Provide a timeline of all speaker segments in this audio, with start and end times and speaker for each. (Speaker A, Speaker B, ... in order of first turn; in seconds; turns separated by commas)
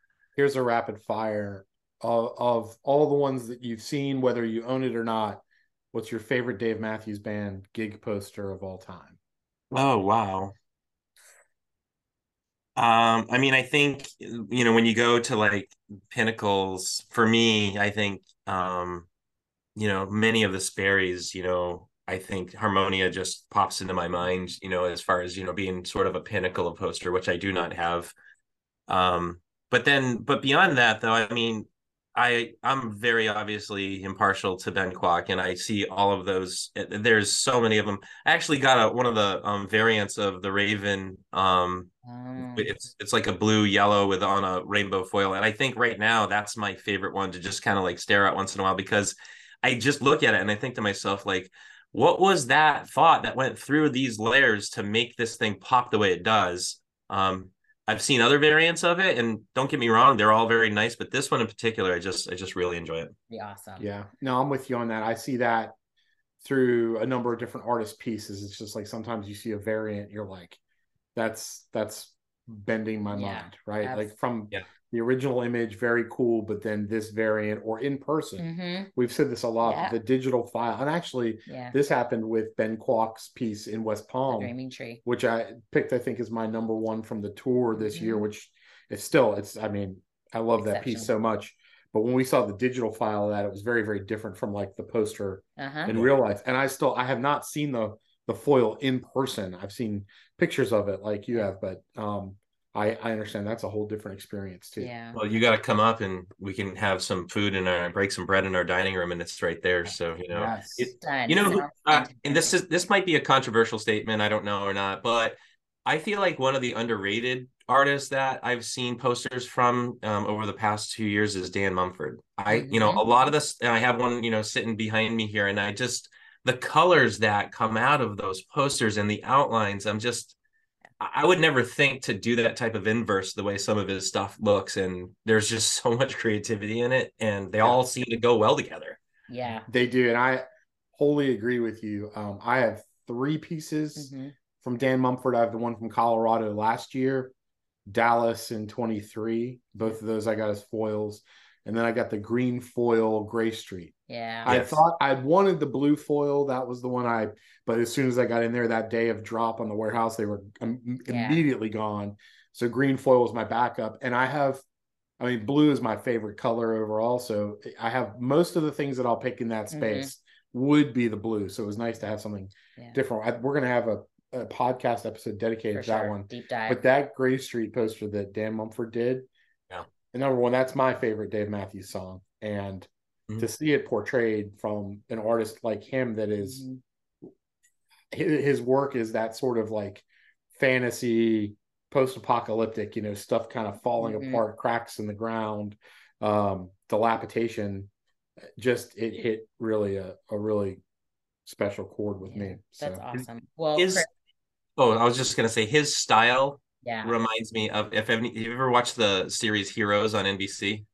Speaker A: 0.4-9.2, Speaker B: 9.7-10.5, Speaker B: 12.8-19.1, Speaker B: 19.8-28.1, Speaker B: 28.9-41.9, Speaker C: 42.0-42.7, Speaker B: 42.5-63.1, Speaker C: 63.3-63.9, Speaker A: 63.8-65.7, Speaker A: 66.4-70.6, Speaker A: 71.1-84.5, Speaker C: 73.1-74.1, Speaker C: 78.4-78.9, Speaker C: 79.6-80.0, Speaker C: 81.5-81.7, Speaker C: 84.3-85.0, Speaker A: 85.0-104.9, Speaker C: 87.7-88.2, Speaker C: 90.6-91.1, Speaker C: 95.6-96.0, Speaker C: 104.8-105.2, Speaker B: 105.1-115.3, Speaker A: 110.3-110.9, Speaker C: 111.0-112.5, Speaker B: 115.9-130.3, Speaker C: 122.5-123.1, Speaker B: 131.0-139.0, Speaker C: 139.3-139.7, Speaker A: 139.7-144.1, Speaker C: 143.9-144.3, Speaker A: 144.6-147.3, Speaker A: 147.9-153.9, Speaker C: 154.1-154.5, Speaker A: 154.4-164.6, Speaker B: 154.4-154.8, Speaker C: 161.1-161.4, Speaker A: 165.2-179.3, Speaker C: 169.7-170.1, Speaker C: 175.7-176.8, Speaker A: 180.1-186.6, Speaker C: 186.4-186.8, Speaker A: 188.1-197.9, Speaker C: 194.0-194.4, Speaker A: 198.6-200.8, Speaker A: 201.4-203.2, Speaker C: 202.2-204.1, Speaker B: 203.8-204.1, Speaker B: 204.8-210.8, Speaker C: 206.8-207.1